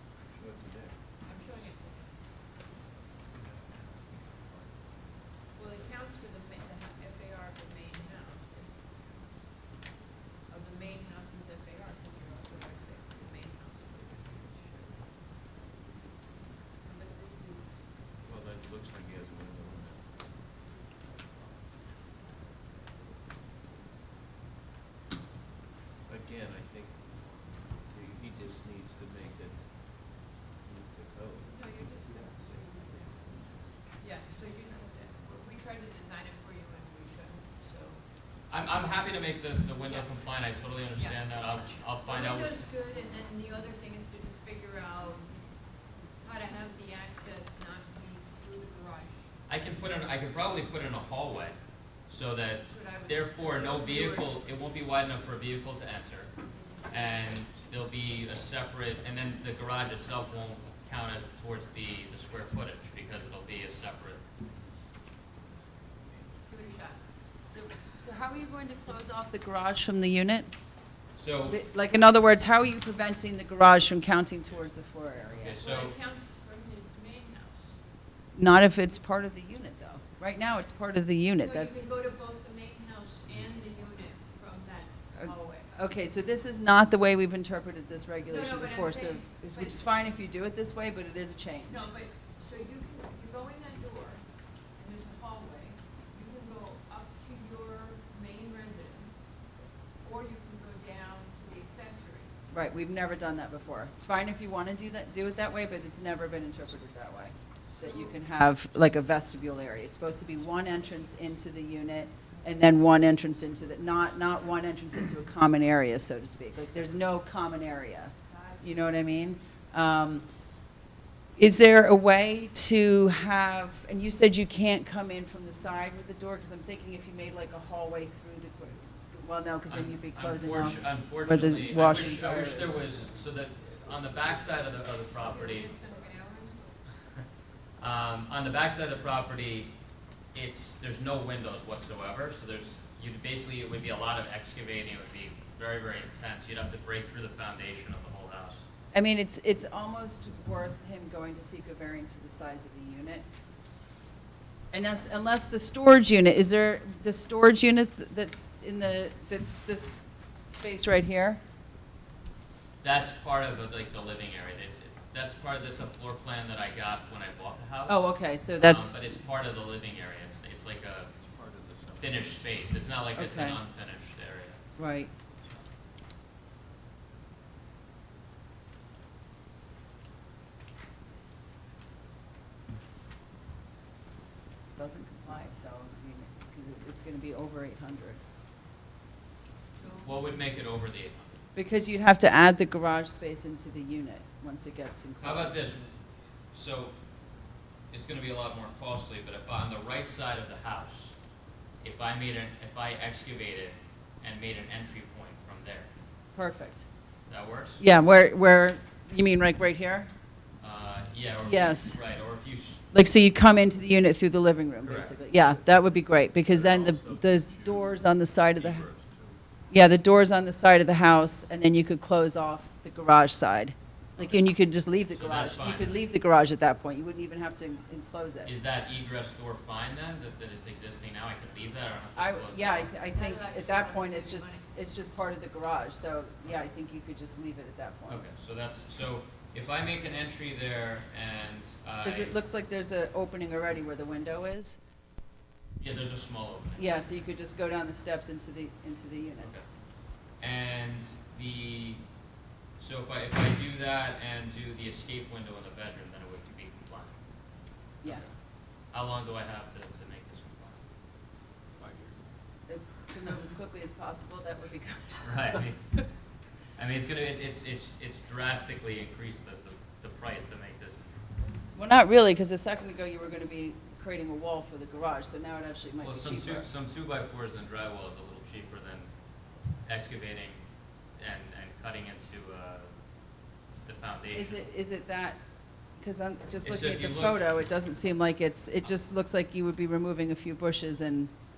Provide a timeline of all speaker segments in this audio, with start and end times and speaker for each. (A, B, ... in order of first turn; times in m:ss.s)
0:00.3-0:01.0 A
0:01.2-0:02.3 B
0:03.3-0:05.9 A
0:05.5-0:08.9 B
0:10.5-0:15.2 B
0:14.2-0:14.7 A
0:16.8-0:17.9 B
0:18.2-0:20.5 A
0:22.6-0:23.9 A
0:26.0-0:35.6 A
0:31.4-0:38.1 B
0:38.5-0:42.6 C
0:39.8-0:40.4 B
0:40.9-0:45.7 B
0:46.2-0:49.3 B
0:49.5-0:56.3 C
0:52.7-0:54.4 B
0:56.3-0:57.3 B
0:56.9-1:04.2 C
1:05.5-1:06.6 A
1:06.5-1:07.0 B
1:07.5-1:10.5 D
1:11.2-1:11.6 C
1:11.5-1:15.6 D
1:15.4-1:16.0 C
1:15.5-1:17.8 B
1:18.3-1:22.0 D
1:21.4-1:25.7 B
1:23.3-1:23.8 A
1:25.2-1:31.9 D
1:28.3-1:30.1 B
1:31.6-1:39.3 B
1:40.0-1:42.3 B
1:42.5-2:00.3 D
1:47.7-1:48.2 B
1:58.3-1:58.7 B
2:01.4-2:13.0 D
2:09.7-2:15.7 C
2:15.2-2:16.9 B
2:17.8-2:19.8 C
2:20.3-2:28.7 C
2:28.9-2:33.2 D
2:34.7-2:41.4 D
2:42.8-2:51.1 C
2:47.9-2:49.0 D
2:51.2-2:52.7 A
2:52.0-2:54.6 C
2:53.1-2:53.6 D
2:54.8-2:55.1 D
2:55.4-2:55.7 C
3:04.8-3:08.2 D
3:09.8-3:10.4 B
3:10.0-3:11.4 C
3:11.6-3:15.8 D
3:15.2-3:16.9 C
3:17.9-3:21.2 C
3:21.8-3:25.9 C
3:26.3-3:26.9 D
3:27.3-3:27.8 C
3:27.8-3:30.1 D
3:30.6-3:32.8 C
3:31.4-3:32.0 D
3:32.9-3:38.9 D
3:34.8-3:35.2 C
3:35.4-3:35.6 A
3:36.4-3:39.4 A
3:39.7-3:48.5 D
3:44.2-3:44.5 C
3:45.1-3:46.0 C
3:48.4-3:53.0 C
3:52.2-3:58.2 D
3:53.1-3:54.7 B
3:58.1-4:02.4 C
4:02.0-4:04.8 D
4:05.8-4:07.2 C
4:06.8-4:09.5 D
4:09.4-4:09.7 C
4:10.4-4:12.0 C
4:12.8-4:17.2 C
4:18.0-4:18.4 D
4:18.0-4:18.4 C
4:18.9-4:20.8 C
4:21.8-4:22.2 A
4:22.7-4:25.6 D
4:25.2-4:26.0 C
4:26.8-4:31.1 C
4:31.8-4:36.7 D
4:36.0-4:39.1 C
4:39.8-4:40.6 C
4:41.2-4:42.9 C
4:43.8-4:44.7 C
4:44.3-4:45.4 D
4:46.0-4:51.3 D
4:46.6-4:47.4 C